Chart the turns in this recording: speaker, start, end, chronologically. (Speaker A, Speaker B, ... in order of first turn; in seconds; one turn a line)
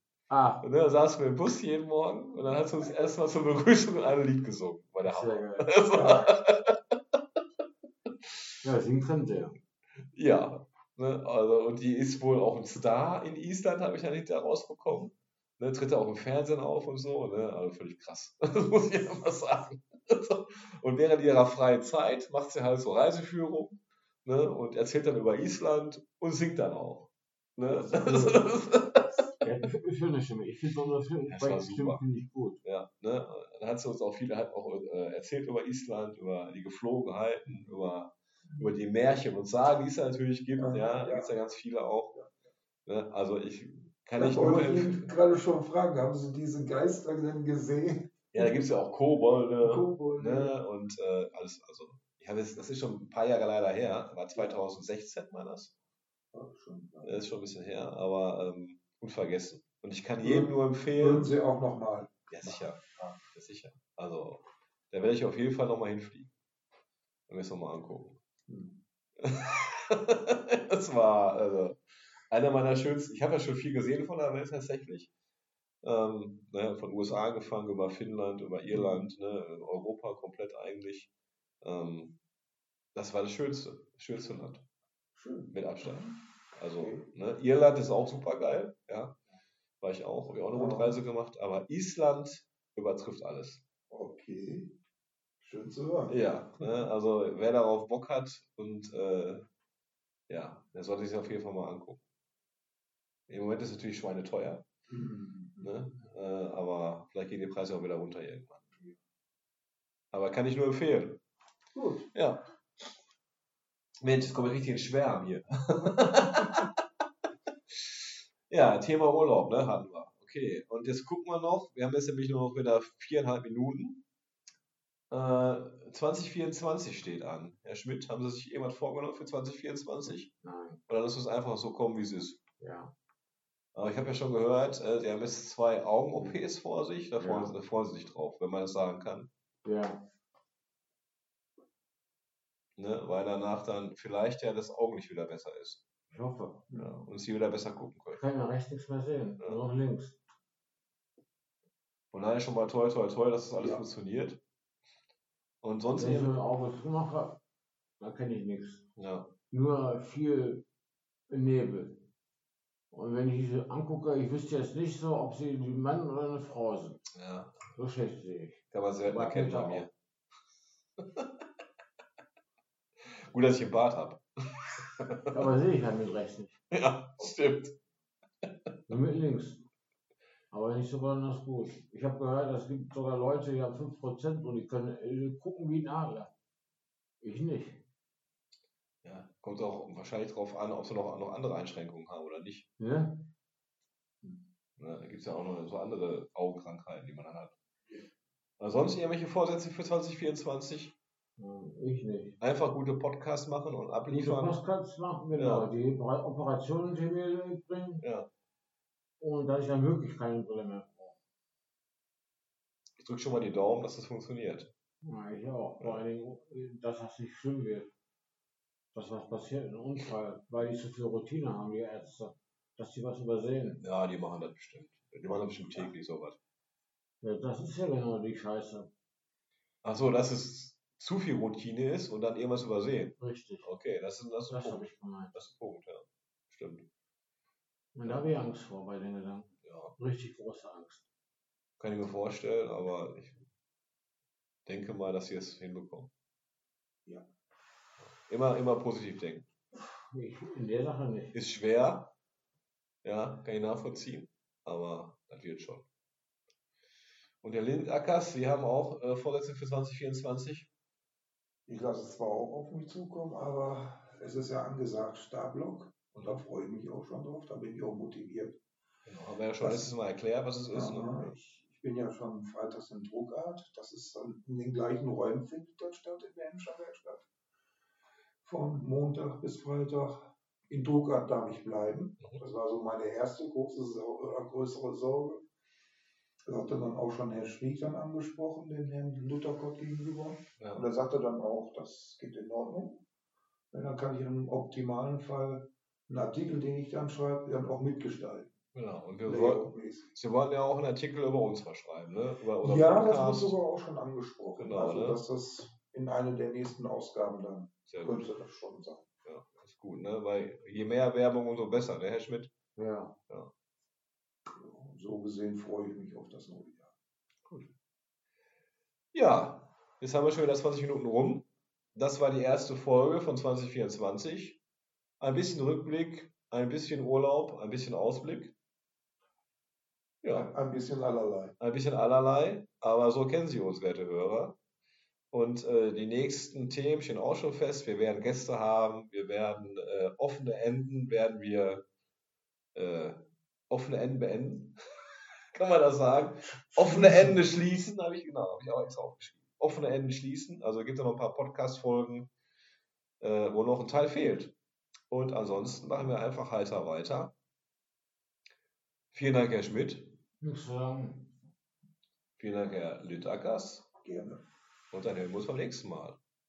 Speaker A: 0.3-0.6
Speaker B: 0.6-6.8
Speaker C: 2.4-2.9
Speaker A: 5.0-5.7
Speaker C: 5.9-6.3
Speaker A: 8.6-9.6
Speaker B: 10.1-29.2
Speaker A: 27.7-28.6
Speaker A: 29.4-32.6
Speaker B: 31.3-32.0
Speaker B: 32.6-42.1
Speaker C: 37.5-37.8
Speaker C: 40.6-41.3
Speaker B: 42.9-45.1
Speaker C: 44.1-48.5
Speaker B: 48.3-55.7
Speaker C: 49.6-50.5
Speaker C: 54.3-54.6
Speaker C: 56.3-57.2
Speaker B: 57.0-61.3
Speaker C: 60.2-63.2
Speaker B: 62.3-62.8
Speaker B: 63.3-66.3
Speaker B: 67.3-68.2
Speaker C: 68.5-68.8
Speaker B: 69.2-75.1
Speaker B: 75.8-81.1
Speaker C: 78.7-79.0
Speaker B: 81.6-82.2
Speaker B: 82.9-84.7
Speaker C: 85.2-86.2
Speaker B: 85.5-89.2
Speaker C: 86.8-87.1
Speaker B: 89.8-93.6
Speaker C: 90.5-91.0
Speaker C: 93.9-94.8
Speaker C: 95.4-96.7
Speaker B: 96.1-99.5
Speaker B: 100.3-102.0
Speaker B: 103.3-104.7
Speaker C: 104.9-105.8
Speaker B: 105.6-108.7
Speaker B: 110.1-111.2
Speaker C: 111.8-112.0
Speaker B: 112.1-112.5
Speaker B: 114.0-116.6
Speaker B: 118.5-124.0
Speaker B: 125.1-130.3
Speaker A: 130.4-130.8
Speaker B: 130.9-132.4
Speaker A: 132.6-132.9
Speaker B: 133.7-139.3
Speaker A: 136.1-136.4
Speaker A: 137.2-137.5
Speaker A: 139.6-140.0
Speaker B: 142.8-145.8
Speaker A: 146.1-146.7
Speaker C: 146.7-146.9
Speaker B: 146.8-148.2
Speaker A: 148.1-150.2
Speaker B: 152.1-154.4
Speaker C: 153.6-153.8
Speaker B: 155.6-156.4
Speaker A: 155.9-157.4
Speaker A: 158.0-158.9
Speaker B: 158.9-159.3
Speaker A: 159.5-160.7
Speaker A: 161.3-162.0
Speaker A: 162.9-167.0
Speaker B: 167.1-167.6
Speaker A: 167.7-169.9
Speaker B: 168.7-169.9
Speaker B: 173.1-174.2
Speaker B: 174.8-175.4
Speaker A: 175.3-176.6
Speaker B: 176.7-177.8
Speaker A: 178.9-179.6
Speaker A: 180.5-186.3
Speaker A: 187.2-187.8
Speaker B: 189.0-192.7
Speaker A: 192.8-193.3
Speaker B: 194.8-197.5
Speaker B: 198.6-200.9
Speaker A: 201.4-202.4
Speaker B: 202.4-204.6
Speaker A: 204.1-208.0
Speaker B: 205.3-205.7
Speaker B: 208.0-208.3
Speaker A: 209.2-211.2
Speaker B: 213.0-214.7
Speaker A: 215.0-217.9
Speaker A: 218.9-223.8
Speaker B: 223.8-226.4
Speaker A: 227.2-228.9
Speaker B: 229.8-236.9
Speaker A: 233.2-233.7
Speaker A: 234.5-235.3
Speaker A: 237.9-241.1
Speaker B: 239.6-239.9
Speaker B: 241.8-243.4
Speaker B: 244.7-246.1
Speaker B: 248.2-249.5
Speaker A: 250.1-251.3
Speaker B: 251.3-252.1
Speaker B: 253.0-255.9
Speaker B: 257.4-260.7
Speaker C: 261.7-268.6
Speaker B: 269.0-271.4
Speaker C: 269.6-269.9
Speaker C: 270.7-277.3
Speaker C: 278.4-285.4
Speaker C: 286.5-293.0
Speaker B: 290.6-290.9
Speaker C: 293.7-298.5
Speaker B: 298.7-303.6
Speaker C: 299.2-300.2
Speaker C: 302.6-309.1
Speaker B: 304.6-305.2
Speaker B: 307.9-308.2
Speaker B: 309.2-312.5
Speaker A: 312.8-313.1
Speaker C: 314.5-316.9
Speaker B: 317.4-317.7
Speaker B: 319.1-324.6
Speaker B: 325.2-328.5
Speaker B: 330.2-330.5
Speaker C: 330.3-331.5
Speaker B: 331.6-334.6
Speaker B: 335.3-341.8
Speaker B: 342.7-344.7
Speaker B: 345.5-352.3
Speaker C: 346.7-347.4
Speaker B: 353.2-354.5
Speaker B: 355.1-357.3
Speaker B: 359.1-360.1
Speaker A: 360.4-361.3
Speaker B: 362.4-363.9
Speaker C: 364.0-364.4
Speaker B: 364.9-366.2